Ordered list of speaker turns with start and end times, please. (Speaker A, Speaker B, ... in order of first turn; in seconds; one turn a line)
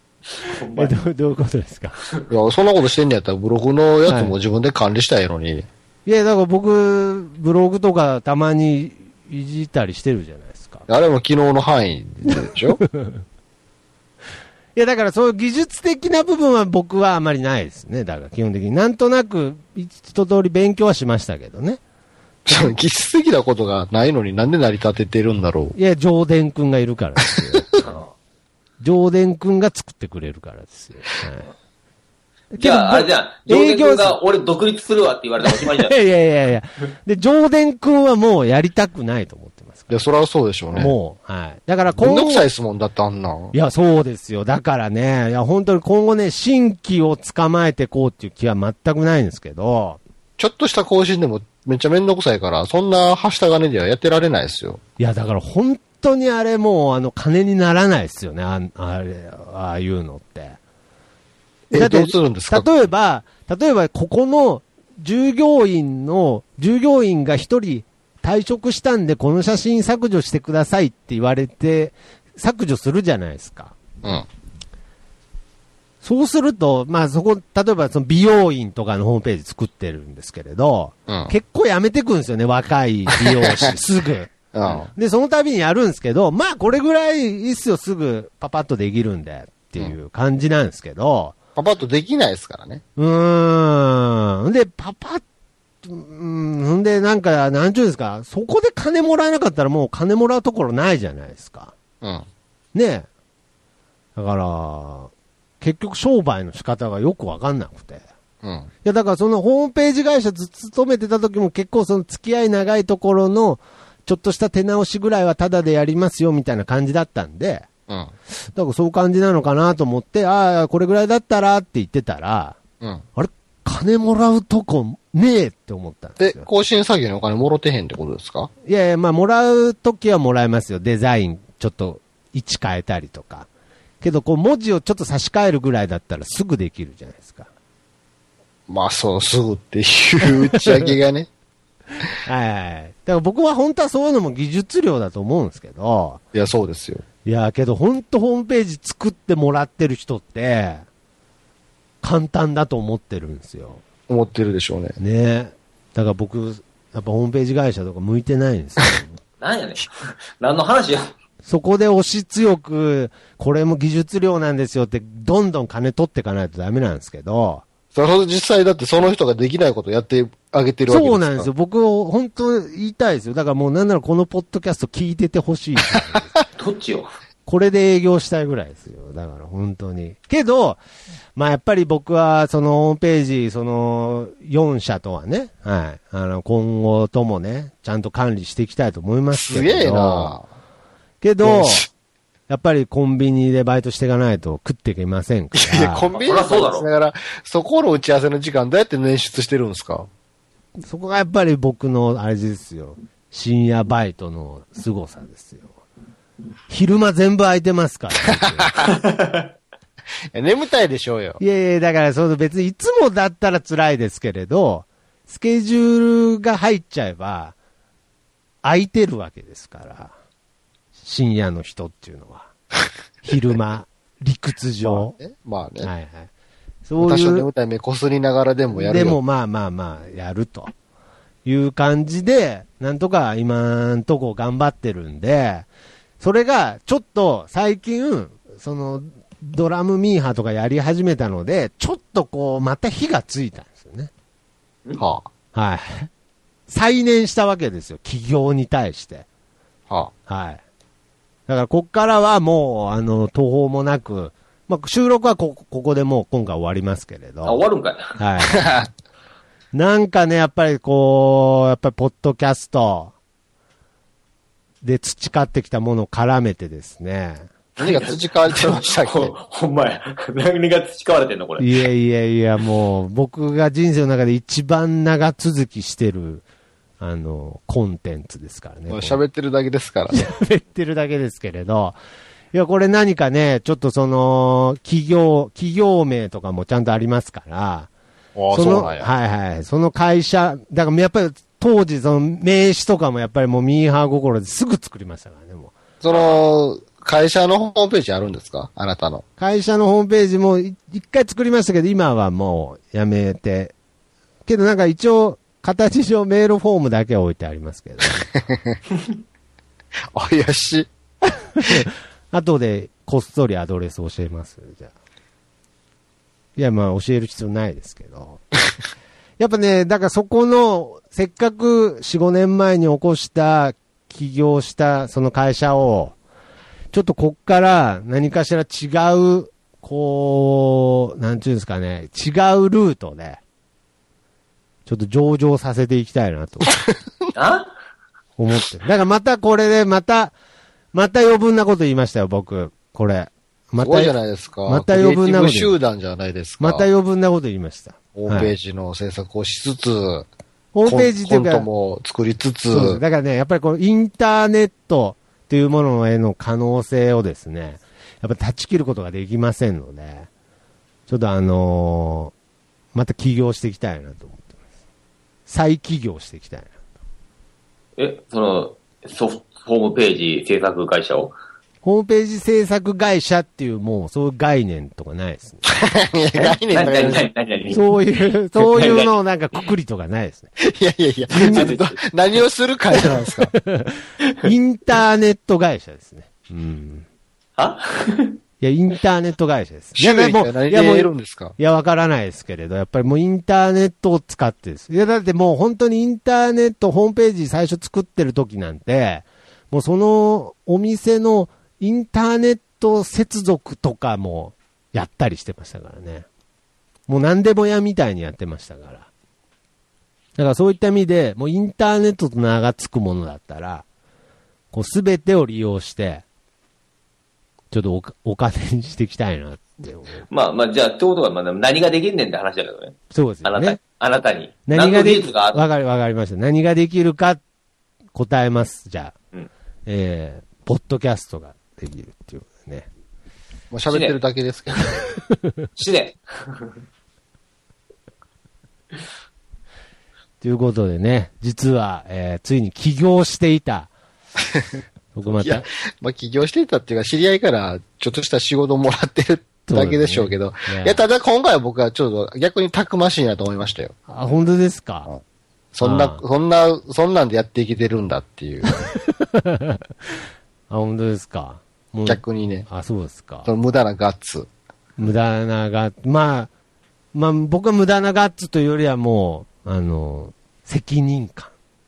Speaker A: 0.4-0.9
Speaker B: 0.8-2.0
Speaker C: 2.3-5.7
Speaker B: 4.1-4.3
Speaker B: 6.0-10.8
Speaker C: 10.9-12.8
Speaker B: 12.9-13.2
Speaker B: 14.7-21.8
Speaker C: 22.4-25.7
Speaker B: 25.7-28.0
Speaker B: 28.8-31.5
Speaker B: 32.5-34.2
Speaker A: 32.6-35.9
Speaker B: 35.4-40.0
Speaker C: 39.9-40.9
Speaker B: 40.7-42.5
Speaker C: 42.0-43.5
Speaker B: 43.5-50.0
Speaker C: 50.4-54.8
Speaker B: 55.0-60.6
Speaker C: 61.7-62.7
Speaker B: 61.7-73.8
Speaker B: 76.0-91.3
Speaker C: 81.1-81.3
Speaker C: 83.4-83.7
Speaker C: 84.5-84.9
Speaker C: 91.5-92.8
Speaker B: 93.0-95.2
Speaker B: 95.8-101.7
Speaker C: 102.0-102.2
Speaker B: 102.7-103.0
Speaker B: 104.2-108.0
Speaker C: 108.4-108.7
Speaker B: 108.8-117.7
Speaker B: 118.5-122.6
Speaker B: 123.2-126.5
Speaker C: 126.2-128.5
Speaker B: 128.6-133.5
Speaker B: 134.0-137.5
Speaker C: 138.7-141.3
Speaker B: 142.2-146.2
Speaker C: 146.3-147.0
Speaker B: 147.2-150.8
Speaker B: 152.0-153.8
Speaker C: 154.1-155.0
Speaker B: 155.0-159.2
Speaker A: 159.4-161.1
Speaker B: 161.4-167.6
Speaker C: 167.9-171.5
Speaker B: 170.9-176.3
Speaker A: 176.6-177.1
Speaker B: 177.5-180.8
Speaker B: 181.3-190.3
Speaker C: 189.3-190.4
Speaker B: 191.2-191.9
Speaker C: 191.4-191.9
Speaker B: 192.5-196.1
Speaker C: 195.5-200.1
Speaker A: 196.1-196.9
Speaker B: 200.8-205.7
Speaker B: 206.7-208.8
Speaker C: 208.6-208.8
Speaker A: 208.9-209.5
Speaker C: 210.3-211.4
Speaker B: 211.4-217.5
Speaker B: 218.6-220.1
Speaker B: 220.9-222.5
Speaker B: 223.2-225.2
Speaker C: 224.8-225.9
Speaker B: 225.8-226.3
Speaker B: 226.8-227.5
Speaker C: 227.0-229.2
Speaker B: 228.7-230.7
Speaker B: 231.4-235.7
Speaker B: 236.2-244.1
Speaker C: 245.0-245.3
Speaker B: 245.5-246.1
Speaker B: 246.7-249.2
Speaker B: 250.3-250.6
Speaker B: 251.5-257.6
Speaker A: 257.4-258.1
Speaker B: 258.1-258.7
Speaker C: 258.4-258.9
Speaker B: 259.7-263.1
Speaker B: 264.8-267.5
Speaker A: 267.8-271.7
Speaker C: 267.8-269.3
Speaker B: 271.6-276.4
Speaker B: 277.0-279.2
Speaker C: 278.9-280.2
Speaker B: 280.1-282.0
Speaker B: 282.5-287.9
Speaker C: 288.4-289.1
Speaker B: 288.5-295.7
Speaker C: 296.0-299.2
Speaker A: 296.1-296.4
Speaker B: 299.4-303.7
Speaker B: 304.4-308.2
Speaker C: 310.1-310.9
Speaker B: 311.6-314.9
Speaker B: 316.6-318.4
Speaker B: 319.4-326.1
Speaker B: 326.9-333.4
Speaker B: 334.9-336.8
Speaker A: 337.3-337.7
Speaker B: 338.4-340.3
Speaker B: 340.9-344.1
Speaker C: 343.8-346.9
Speaker B: 344.7-345.7
Speaker B: 346.6-348.5
Speaker C: 348.1-350.3
Speaker B: 350.7-351.7
Speaker C: 350.9-353.0
Speaker B: 352.7-360.3
Speaker B: 361.1-362.3
Speaker B: 362.9-364.6
Speaker B: 365.5-366.7
Speaker A: 368.0-371.3
Speaker B: 371.8-375.6
Speaker C: 375.7-377.2
Speaker A: 376.3-377.8
Speaker B: 377.7-380.5
Speaker A: 378.6-379.1
Speaker C: 380.7-383.5
Speaker B: 381.3-381.7
Speaker A: 381.4-382.0
Speaker B: 383.6-387.1
Speaker A: 384.2-384.5
Speaker A: 387.6-388.4
Speaker B: 388.6-406.2
Speaker C: 390.0-391.6
Speaker B: 407.1-409.1
Speaker B: 410.4-413.9
Speaker B: 414.7-416.2
Speaker B: 417.7-420.2
Speaker A: 420.3-425.6
Speaker B: 423.1-423.8
Speaker B: 424.7-427.4
Speaker B: 428.1-429.1
Speaker B: 429.9-432.9
Speaker C: 433.7-434.9
Speaker A: 433.9-434.2
Speaker A: 435.8-436.7
Speaker B: 440.4-443.9
Speaker C: 444.5-444.8
Speaker B: 445.1-445.7
Speaker C: 445.3-453.9
Speaker B: 449.7-451.0
Speaker B: 454.1-455.1
Speaker C: 455.7-458.8
Speaker B: 455.8-456.2
Speaker B: 458.8-463.5
Speaker C: 462.1-462.7
Speaker C: 463.4-464.5
Speaker B: 465.0-466.5
Speaker B: 467.1-471.5